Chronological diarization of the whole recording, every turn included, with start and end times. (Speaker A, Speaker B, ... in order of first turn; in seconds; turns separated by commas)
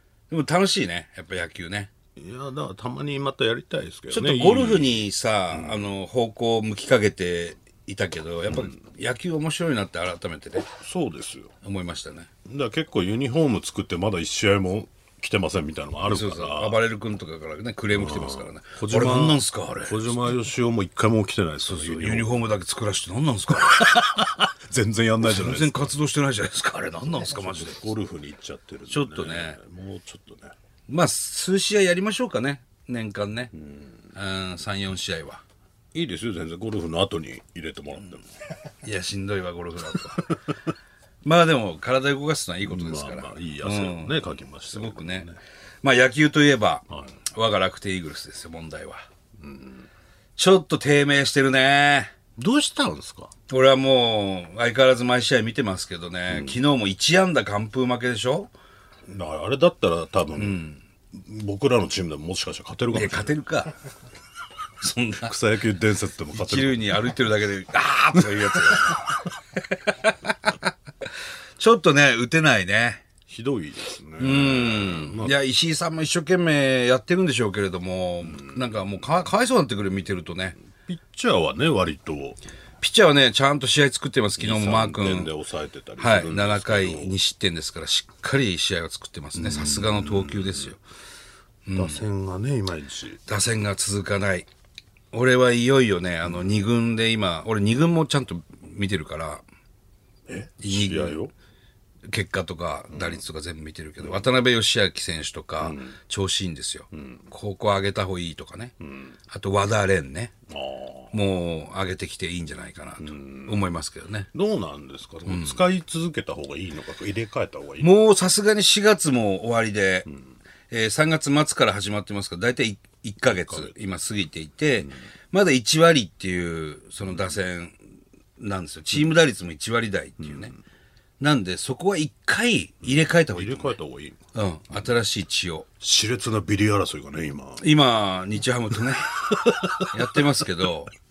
Speaker A: 0.3-1.9, Speaker B: 2.1-5.9, Speaker A: 4.1-10.7, Speaker B: 10.8-11.5, Speaker A: 11.6-12.3, Speaker B: 12.4-16.8, Speaker A: 16.1-20.2, Speaker B: 17.9-22.4, Speaker A: 21.6-24.0, Speaker B: 23.5-25.9, Speaker A: 25.2-27.9, Speaker B: 27.2-30.5, Speaker A: 28.9-29.6, Speaker A: 30.9-33.5, Speaker A: 34.1-35.4, Speaker B: 35.9-38.3, Speaker A: 38.8-40.4, Speaker A: 41.2-45.3, Speaker B: 42.6-45.4, Speaker A: 45.8-49.1, Speaker B: 46.9-47.2, Speaker B: 49.4-49.9, Speaker A: 50.4-52.1, Speaker B: 52.4-53.3, Speaker A: 53.5-58.5, Speaker B: 56.3-56.6, Speaker B: 59.1-60.6, Speaker A: 60.4-60.8, Speaker B: 61.1-63.4, Speaker A: 62.9-63.8, Speaker A: 64.8-65.3, Speaker B: 65.2-67.1, Speaker A: 66.3-70.5, Speaker A: 71.6-73.0, Speaker B: 73.3-75.4, Speaker A: 74.2-80.6, Speaker B: 80.8-82.4, Speaker A: 82.8-85.3, Speaker B: 84.4-87.1, Speaker A: 86.0-90.8, Speaker B: 89.3-90.7, Speaker A: 91.7-92.0, Speaker B: 91.8-93.2, Speaker A: 93.3-94.5, Speaker A: 95.1-99.5, Speaker B: 100.3-101.3, Speaker A: 100.6-101.2, Speaker A: 102.1-108.7, Speaker B: 102.9-103.2, Speaker B: 104.0-104.3, Speaker B: 105.6-106.0, Speaker B: 106.9-107.2, Speaker B: 108.8-109.1, Speaker A: 109.3-110.3, Speaker B: 110.5-111.2, Speaker A: 111.1-114.3, Speaker B: 113.0-113.7, Speaker B: 114.3-118.1, Speaker A: 115.2-115.6, Speaker A: 117.8-120.1, Speaker A: 120.7-127.8, Speaker B: 123.2-123.7, Speaker A: 128.4-130.5, Speaker B: 130.2-130.5, Speaker A: 131.2-133.8, Speaker B: 132.8-134.2, Speaker A: 134.3-135.7, Speaker B: 135.8-137.7, Speaker A: 137.6-140.9, Speaker B: 139.2-140.2